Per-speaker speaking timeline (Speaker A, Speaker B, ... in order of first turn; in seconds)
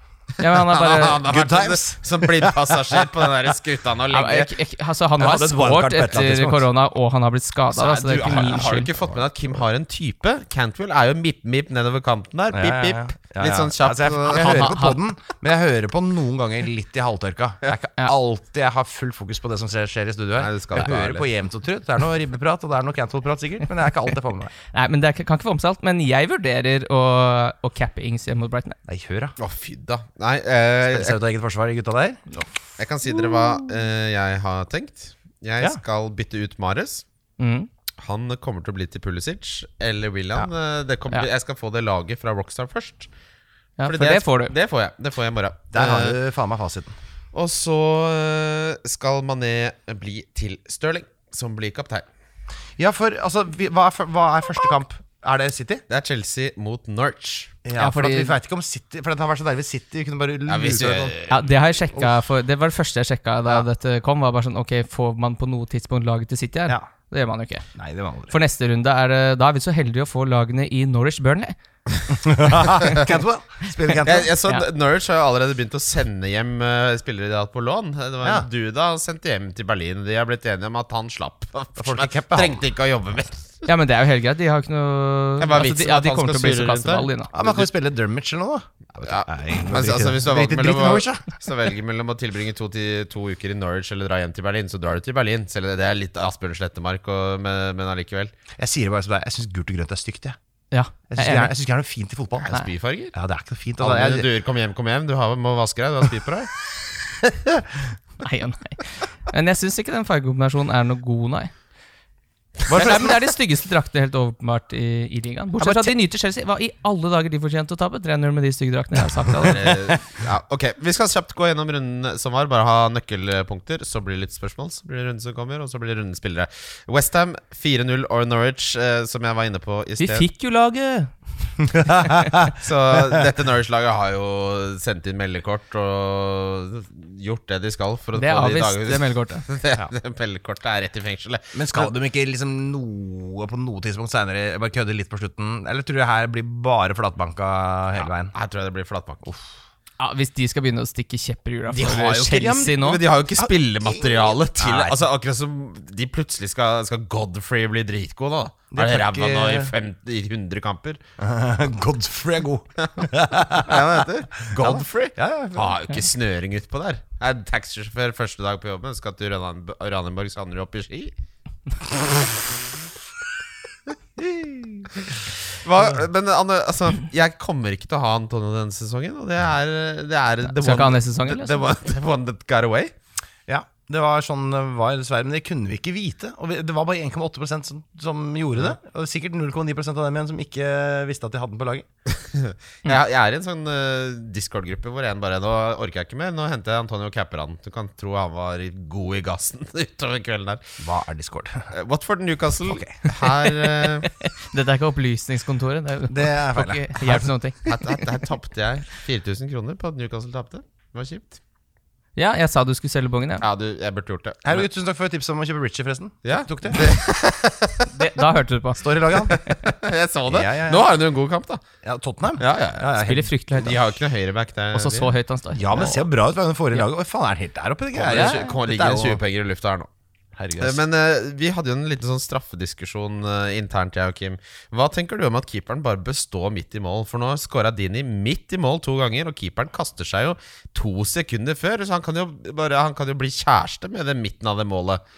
Speaker A: 0.4-1.3, 4.1-8.9, 14.3-15.0, 24.7-28.8, 37.4-37.7, 43.8-44.5, 57.8-58.4, 61.3-67.7, 68.3-71.5, 83.7-87.3, 100.7-101.5, 108.2-111.5, 112.7-119.7, 130.0-131.5, 138.1-139.5, 150.0-153.0, 180.4-181.6, 203.0-208.0, 212.2-213.4, 217.9-219.6, 222.9-223.8, 224.7-226.1, 228.1-228.5
Speaker B: 0.4-4.5, 7.7-14.8, 20.4-21.3, 29.4-31.2, 32.8-37.0, 38.0-43.1, 43.9-46.2, 47.3-52.0, 55.9-57.5, 60.5-61.3, 74.0-83.7, 85.4-87.7, 89.0-98.3, 102.4-103.1, 103.8-106.5, 119.4-130.2, 132.5-141.9, 148.0-149.2, 151.7-161.0, 163.0-171.1, 175.0-182.9, 192.1-200.6, 201.7-204.1, 207.6-211.4, 213.4-214.7, 216.2-218.1, 219.3-221.6, 222.4-222.9, 223.6-225.1, 227.9-229.9, 230.6-245.0
Speaker C: 1.2-3.0, 5.2-6.7, 8.2-9.2, 12.5-24.5, 28.9-29.4, 30.8-32.4, 45.7-46.9, 52.8-55.8, 57.6-61.2, 67.7-68.3, 72.1-74.3, 81.8-82.6, 87.3-91.3, 98.6-100.3, 101.1-102.6, 103.1-104.2, 115.6-115.9, 131.7-133.2, 141.5-148.3, 152.2-152.8, 153.3-155.0, 158.7-159.7, 161.2-165.9, 183.5-191.8, 200.8-201.7, 202.7-203.0, 206.1-207.3, 214.4-216.9, 218.8-219.4, 220.3-220.9, 221.8-223.8, 225.5-229.2, 230.3-230.8